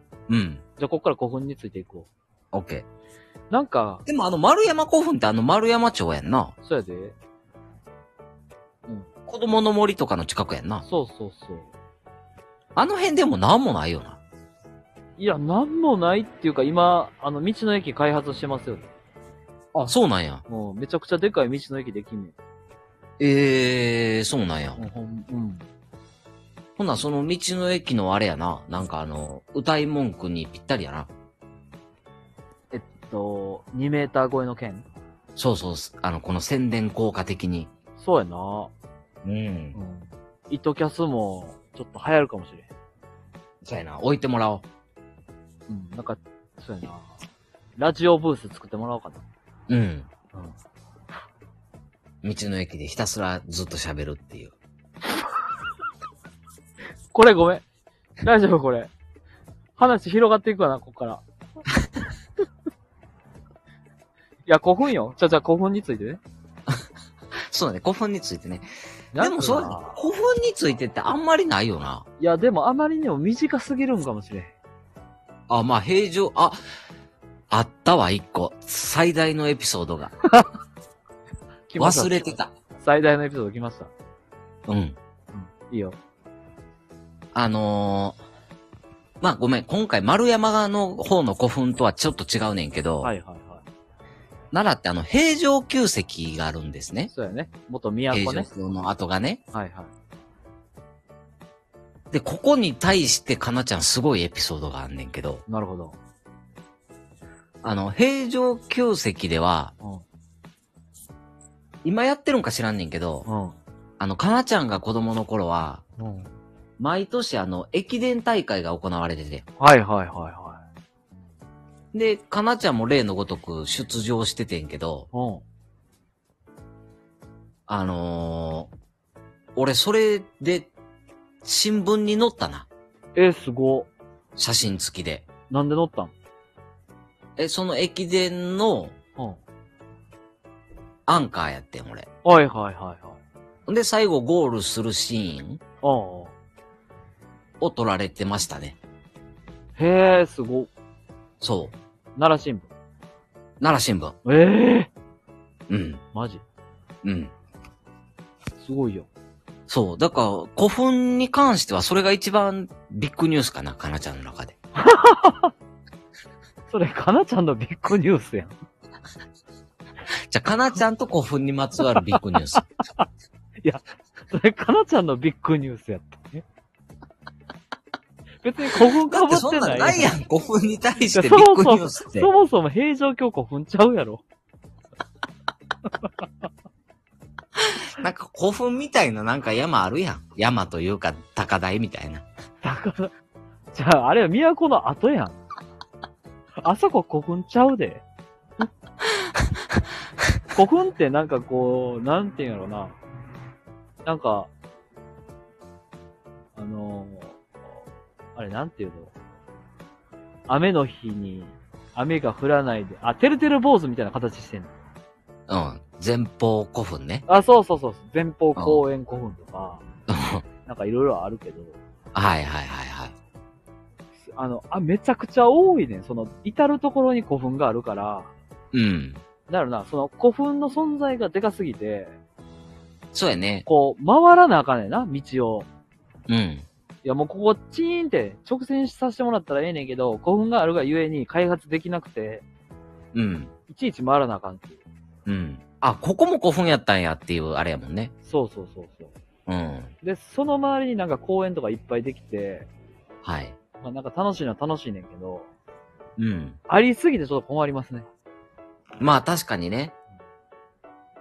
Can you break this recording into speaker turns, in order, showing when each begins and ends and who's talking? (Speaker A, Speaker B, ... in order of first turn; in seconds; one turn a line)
Speaker A: 0.3-0.6
Speaker B: 0.8-2.1
Speaker A: 2.5-2.9
Speaker B: 3.5-4.0
Speaker A: 4.0-6.5
Speaker B: 6.6-7.2
Speaker A: 9.2-10.8
Speaker B: 10.8-11.7
Speaker A: 12.8-14.2
Speaker B: 15.2-18.9
Speaker A: 19.7-20.4
Speaker B: 20.5-22.3
Speaker A: 23.2-24.9
Speaker B: 24.8-25.6
Speaker A: 26.8-31.1
Speaker B: 32.7-34.9
Speaker A: 35.4-37.7
Speaker B: 38.0-38.7
Speaker A: 39.2-39.8
Speaker B: 39.7-42.7
Speaker A: 43.6-44.6
Speaker B: 45.7-47.1
Speaker B: 47.8-49.2
Speaker A: 49.7-50.1
Speaker A: 52.2-54.5
Speaker B: 57.1-57.6
Speaker B: 58.2-58.9
Speaker B: 59.8-61.2
Speaker B: 64.5-66.2
Speaker A: 67.5-68.7
Speaker B: 69.1-70.0
Speaker A: 69.2-72.0
Speaker B: 72.2-74.5
Speaker A: 75.5-76.6
Speaker A: 77.5-80.1
Speaker B: 81.7-83.9
Speaker A: 81.8-82.5
Speaker A: 84.7-85.0
Speaker B: 85.3-86.0
Speaker A: 87.3-88.2
Speaker A: 89.2-93.1
Speaker B: 93.0-93.6
Speaker A: 94.5-97.1
Speaker B: 97.1-98.5
Speaker A: 98.1-99.4
Speaker B: 99.5-99.9
Speaker A: 102.1-105.4
Speaker B: 105.5-106.0
Speaker A: 107.6-109.7
Speaker A: 111.8-113.3
Speaker B: 113.3-113.6
Speaker A: 114.0-115.8
Speaker B: 116.0-116.3
Speaker A: 116.8-119.5
Speaker B: 119.6-120.6
Speaker A: 121.9-125.1
Speaker B: 125.1-125.4
Speaker A: 127.7-128.7
Speaker A: 129.6-130.7
Speaker A: 131.4-132.7
Speaker B: 133.1-133.9
Speaker A: 134.4-135.3
Speaker B: 135.5-136.1
Speaker A: 137.4-138.9
Speaker A: 141.1-142.1
Speaker B: 142.2-143.2
Speaker A: 143.7-145.6
Speaker B: 145.8-146.3
Speaker A: 147.6-148.8
Speaker B: 149.8-150.7
Speaker A: 151.4-151.8
Speaker B: 152.2-152.7
Speaker A: 153.6-154.1
Speaker B: 154.2-154.9
Speaker A: 155.7-156.0
Speaker B: 156.1-156.4
Speaker A: 157.0-157.3
Speaker B: 158.6-159.1
Speaker A: 159.7-164.5
Speaker B: 164.8-165.5
Speaker B: 166.7-168.5
Speaker A: 170.3-172.6
Speaker B: 173.6-176.4
Speaker B: 178.4-180.1
Speaker A: 179.0-182.3
Speaker B: 181.1-184.2
Speaker A: 188.0-192.2
Speaker B: 192.6-193.1
Speaker B: 193.7-195.4
Speaker B: 196.6-198.0
Speaker B: 200.5-202.9
Speaker B: 204.0-204.5
Speaker B: 206.6-207.4
Speaker B: 208.3-209.1
Speaker B: 210.5-214.7
Speaker A: 215.5-217.2
Speaker B: 217.3-219.8
Speaker A: 218.6-218.8
Speaker A: 220.1-220.4
Speaker B: 220.7-221.8
Speaker A: 222.1-223.1
Speaker B: 224.3-228.3
Speaker A: 228.7-229.2
Speaker B: 229.5-232.2
Speaker A: 233.1-233.6
Speaker B: 233.7-235.7
Speaker A: 236.3-236.7
Speaker B: 237.0-242.4
Speaker A: 243.1-243.5
Speaker B: 243.7-244.8
Speaker A: 245.2-248.1
Speaker B: 248.2-249.1
Speaker A: 249.5-249.9
Speaker B: 250.0-252.7
Speaker A: 253.2-253.6
Speaker B: 253.8-255.5
Speaker A: 256.2-256.6
Speaker B: 256.7-258.1
Speaker A: 259.0-259.9